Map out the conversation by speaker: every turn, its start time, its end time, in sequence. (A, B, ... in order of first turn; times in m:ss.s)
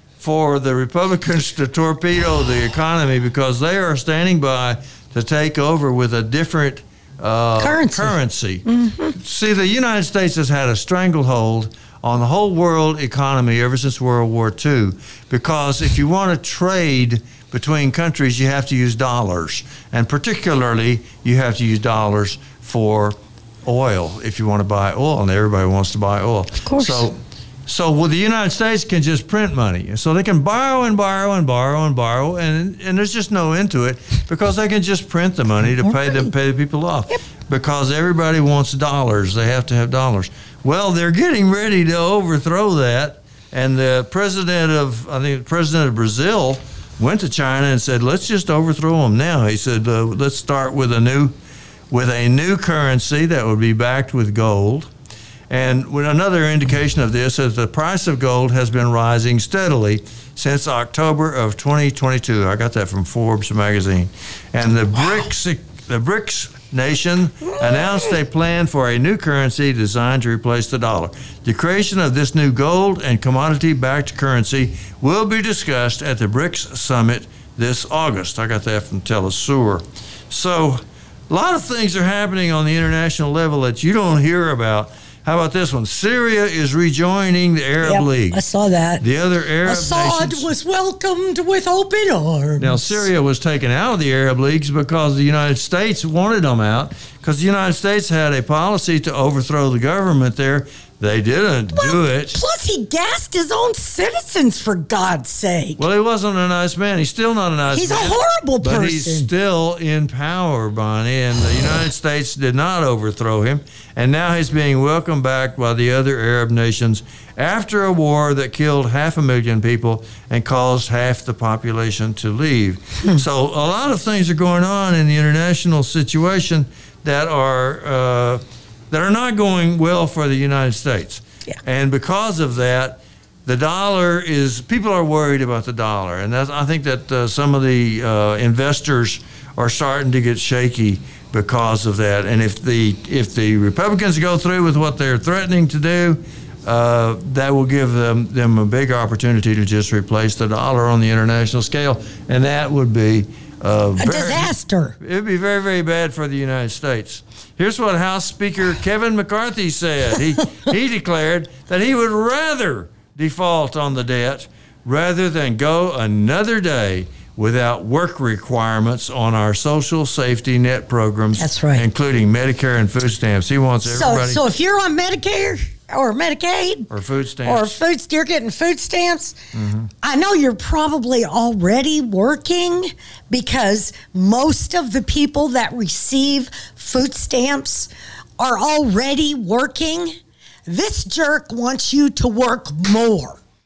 0:00.2-0:51.3 A
0:07.6-0:09.1 B
0:26.6-0:27.0 B
0:35.8-0:36.3 B
0:51.9-0:54.9 A
0:55.5-1:28.4 A
1:07.5-1:08.1 B
1:27.8-1:29.0 B
1:29.0-1:30.5 A
1:29.6-1:33.0 B
1:32.6-1:42.4 A
1:41.7-1:45.8 B
1:45.8-2:54.4 A
1:47.7-1:49.3 B
2:34.0-2:35.0 B
2:51.4-2:51.8 B
2:53.8-2:56.9 B
2:56.9-2:57.7 A
2:57.4-2:59.4 B
2:59.5-2:59.9 A
3:00.0-3:13.4 B